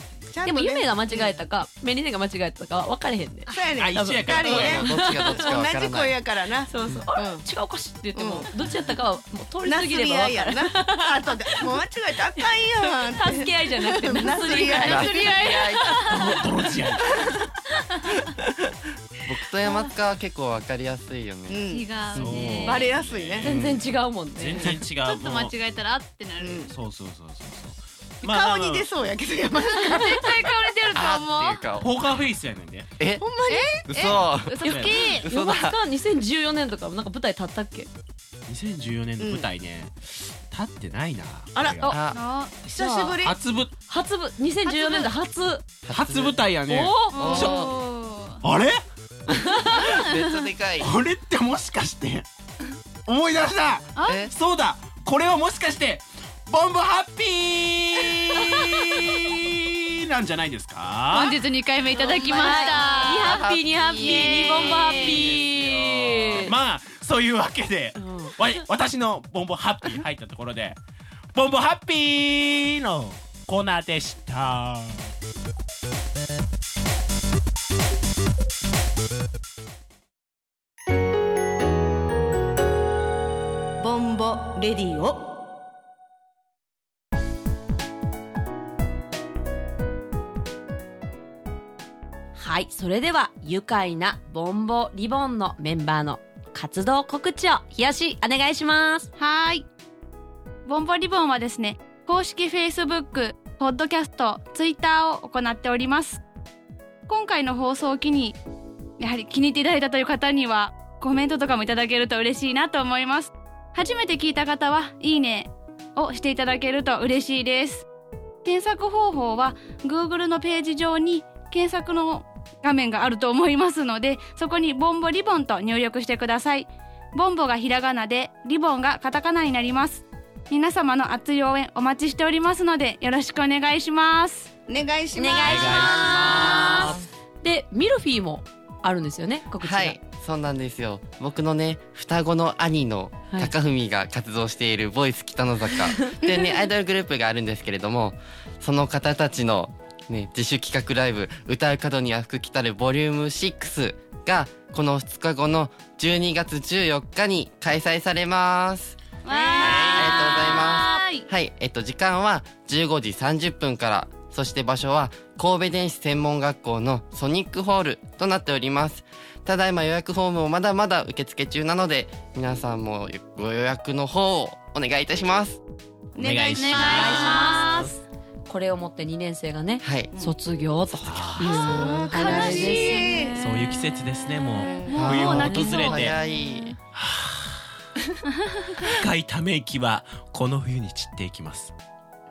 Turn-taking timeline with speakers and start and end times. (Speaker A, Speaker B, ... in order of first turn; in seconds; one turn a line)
Speaker A: 0.3-1.3
Speaker B: 0.4-3.5
Speaker A: 3.5-7.5
Speaker C: 3.8-4.8
Speaker D: 4.3-6.1
Speaker B: 4.4-5.4
Speaker B: 6.7-11.1
Speaker A: 8.1-8.5
Speaker A: 9.6-15.1
Speaker B: 12.9-15.2
Speaker D: 14.8-15.9
Speaker E: 14.9-16.3
Speaker C: 16.1-17.1
Speaker E: 17.7-18.2
Speaker D: 19.2-21.7
Speaker A: 21.5-21.9
Speaker E: 21.7-22.8
Speaker C: 22.1-25.5
Speaker A: 22.5-23.5
Speaker B: 23.4-24.8
Speaker E: 25.0-26.7
Speaker A: 26.4-26.7
Speaker C: 26.6-28.9
Speaker A: 28.2-30.3
Speaker E: 29.7-31.7
Speaker D: 30.9-31.9
Speaker C: 31.7-32.9
Speaker D: 33.0-33.2
Speaker A: 33.2-34.1
Speaker E: 33.5-35.3
Speaker D: 33.9-35.8
Speaker C: 34.1-35.1
Speaker B: 35.3-37.9
Speaker C: 38.5-42.0
Speaker A: 39.2-39.5
Speaker A: 41.5-41.9
Speaker D: 41.9-42.2
Speaker E: 42.1-42.5
Speaker A: 42.6-43.4
Speaker B: 42.7-43.2
Speaker C: 43.2-43.7
Speaker B: 43.9-45.6
Speaker E: 44.6-45.1
Speaker D: 45.8-46.4
Speaker C: 45.9-47.6
Speaker B: 46.7-47.5
Speaker E: 47.0-48.4
Speaker D: 47.1-47.7
Speaker C: 48.4-48.8
Speaker D: 49.4-50.9
Speaker C: 50.8-52.2
Speaker C: 53.0-61.4
Speaker E: 53.9-54.2
Speaker D: 54.0-54.3
Speaker E: 61.1-65.3
Speaker A: 61.9-62.8
Speaker D: 62.0-64.5
Speaker B: 62.3-66.5
Speaker C: 65.1-70.8
Speaker B: 68.0-68.4
Speaker C: 71.3-75.1
Speaker A: 83.8-85.2
Speaker B: 92.3-99.1
Speaker E: 99.2-99.6
Speaker E: 100.6-106.2
Speaker E: 107.1-108.4
Speaker E: 109.0-117.9
Speaker E: 118.4-134.5
Speaker A: 134.7-136.7
Speaker B: 135.1-140.0
Speaker C: 135.4-137.0
Speaker D: 136.1-137.0
Speaker D: 139.6-159.0
Speaker E: 159.2-161.3
Speaker A: 159.3-160.1
Speaker C: 159.5-160.1
Speaker D: 159.6-175.6
Speaker A: 176.1-177.4
Speaker C: 176.2-177.2
Speaker E: 176.5-177.9
Speaker B: 176.8-177.9
Speaker B: 178.5-183.8
Speaker D: 179.8-180.1
Speaker D: 180.9-182.0
Speaker C: 181.0-181.5
Speaker A: 181.5-183.4
Speaker E: 182.1-183.1
Speaker C: 183.3-186.1
Speaker A: 184.6-185.1
Speaker E: 184.8-186.0
Speaker D: 184.9-186.7
Speaker B: 185.4-186.7
Speaker C: 186.9-187.6
Speaker E: 188.4-188.9
Speaker C: 188.9-191.7